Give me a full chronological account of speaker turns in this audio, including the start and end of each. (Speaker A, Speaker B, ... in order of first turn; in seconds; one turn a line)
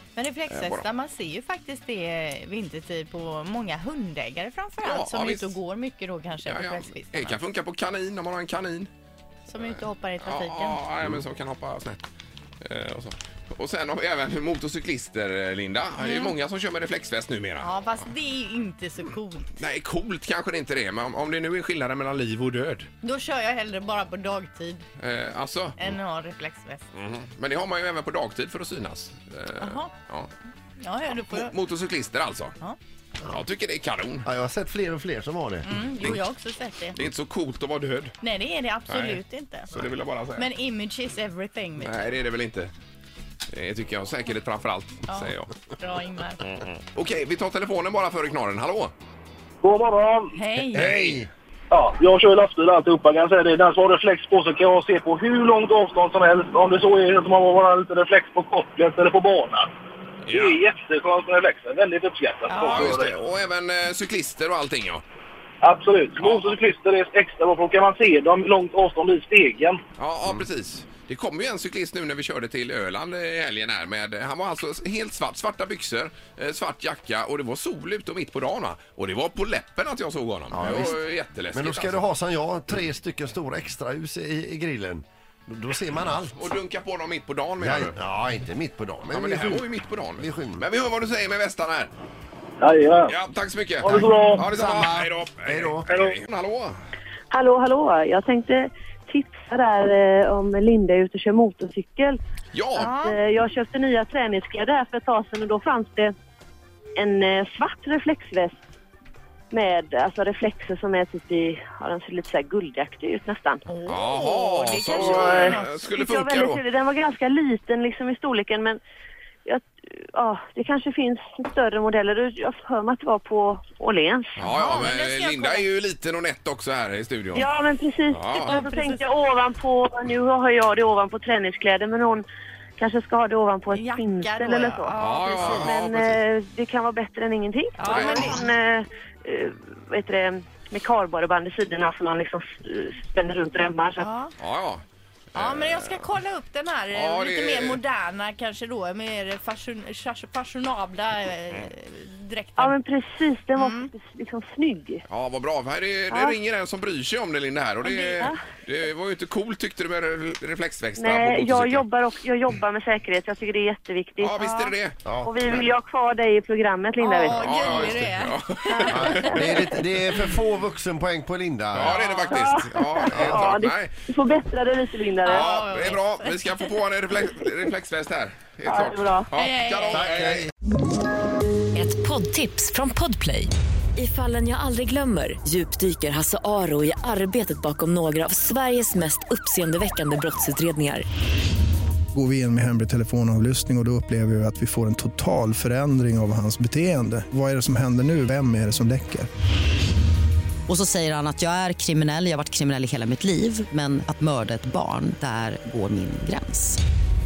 Speaker A: 0.1-7.4
Speaker B: 0.5-0.8
Speaker B: 4.8-5.5
Speaker B: 6.4-8.9
Speaker A: 9.5-10.8
Speaker B: 9.6-12.1
Speaker B: 12.6-17.7
Speaker A: 16.0-16.3
Speaker A: 17.6-19.5
Speaker B: 19.6-22.9
Speaker A: 23.0-24.9
Speaker B: 25.0-25.8
Speaker A: 25.8-26.8
Speaker B: 26.9-30.3
Speaker A: 29.6-29.9
Speaker A: 30.8-31.5
Speaker B: 31.1-32.5
Speaker B: 33.2-34.3
Speaker C: 34.2-35.7
Speaker A: 35.6-37.0
Speaker B: 36.9-38.1
Speaker A: 38.2-39.7
Speaker B: 38.9-39.2
Speaker B: 39.7-40.5
Speaker A: 40.4-42.1
Speaker B: 41.8-42.7
Speaker B: 43.5-45.5
Speaker A: 45.1-46.4
Speaker B: 46.6-48.9
Speaker D: 49.6-50.4
Speaker A: 50.3-51.0
Speaker B: 50.7-51.2
Speaker C: 50.7-51.3
Speaker D: 51.7-59.7
Speaker B: 60.2-60.6
Speaker D: 60.3-63.1
Speaker A: 62.5-62.9
Speaker B: 62.6-65.0
Speaker D: 65.6-69.8
Speaker B: 66.2-66.5
Speaker B: 70.0-82.0
Speaker C: 80.5-81.0
Speaker C: 81.5-86.5
Speaker B: 86.3-88.0
Speaker C: 87.6-90.6
Speaker B: 89.1-91.9
Speaker D: 92.6-93.1
Speaker B: 93.1-96.8
Speaker D: 93.8-94.5
Speaker C: 93.9-95.9
Speaker E: 97.3-102.2
Speaker B: 102.5-102.9
Speaker A: 102.8-103.2
Speaker E: 102.8-106.1
Speaker E: 107.0-108.6
Speaker E: 109.5-113.6
Speaker A: 113.7-115.8
Speaker B: 113.9-116.6
Speaker E: 114.8-118.8
Speaker E: 119.5-124.4
Speaker B: 124.3-127.5
Speaker A: 124.4-125.7
Speaker E: 127.3-132.2
Speaker B: 128.1-128.6
Speaker A: 128.4-129.0
Speaker E: 132.8-144.1
Speaker A: 133.7-135.7
Speaker B: 134.9-136.2
Speaker A: 137.8-138.5
Speaker B: 137.8-138.4
Speaker A: 144.0-144.3
Speaker B: 144.4-144.8
Speaker B: 145.3-146.1
Speaker A: 145.3-152.8
Speaker B: 146.9-147.8
Speaker E: 152.6-155.0
Speaker A: 153.5-153.9
Speaker B: 155.1-161.8
Speaker E: 156.1-156.3
Speaker E: 158.0-158.4
Speaker E: 160.9-164.3
Speaker B: 164.2-165.0
Speaker A: 164.4-164.7
Speaker C: 165.0-165.3
Speaker E: 165.2-168.0
Speaker A: 167.0-169.7
Speaker B: 167.3-169.7
Speaker E: 168.7-169.1
Speaker C: 168.9-172.0
Speaker B: 171.7-173.9
Speaker A: 171.9-172.6
Speaker E: 172.3-175.5
Speaker C: 173.1-173.4
Speaker A: 175.2-176.7
Speaker B: 175.3-180.5
Speaker E: 178.6-179.3
Speaker A: 179.3-180.1
Speaker C: 180.0-180.4
Speaker F: 181.7-191.1
Speaker G: 192.1-199.3
Speaker H: 200.7-206.8